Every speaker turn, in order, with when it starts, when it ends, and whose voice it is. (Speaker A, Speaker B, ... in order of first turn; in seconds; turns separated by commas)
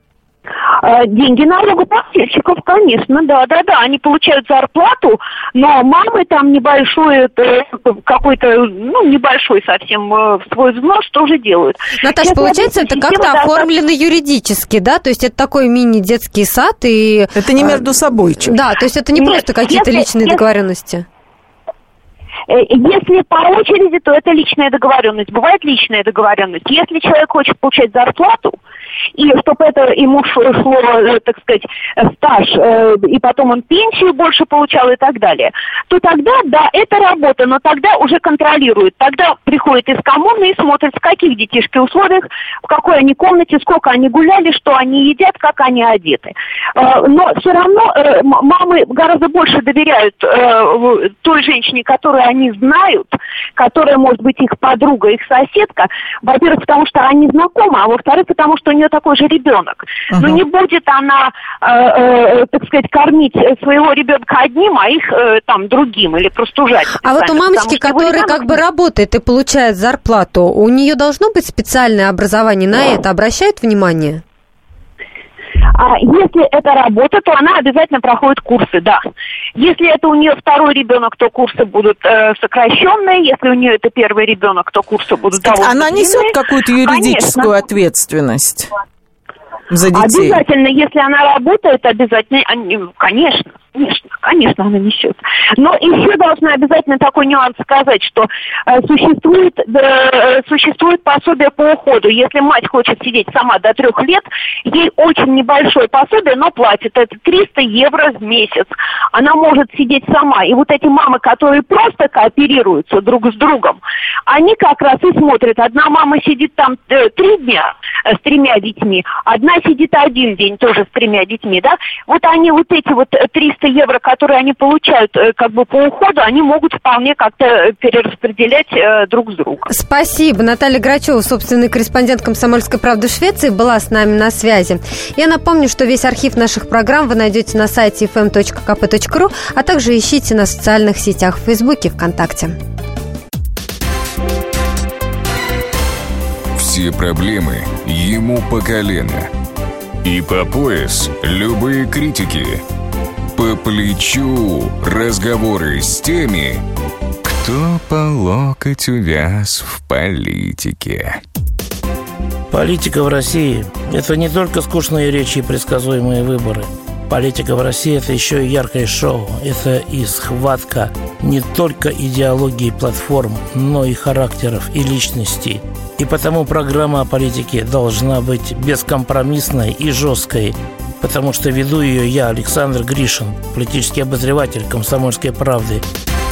Speaker A: 0.8-13.7, Speaker B: 12.0-21.1, Speaker C: 17.4-18.6, Speaker A: 19.1-20.4, Speaker A: 22.5-28.6, Speaker A: 29.2-68.6, Speaker C: 60.1-60.4, Speaker B: 67.0-74.2, Speaker A: 75.7-79.0, Speaker A: 79.6-87.5, Speaker C: 85.3-88.7, Speaker C: 89.7-90.4, Speaker A: 89.9-129.7, Speaker B: 129.7-142.6, Speaker D: 146.5-149.3, Speaker D: 150.0-152.6, Speaker D: 153.3-156.6, Speaker D: 157.2-161.2, Speaker E: 162.5-185.8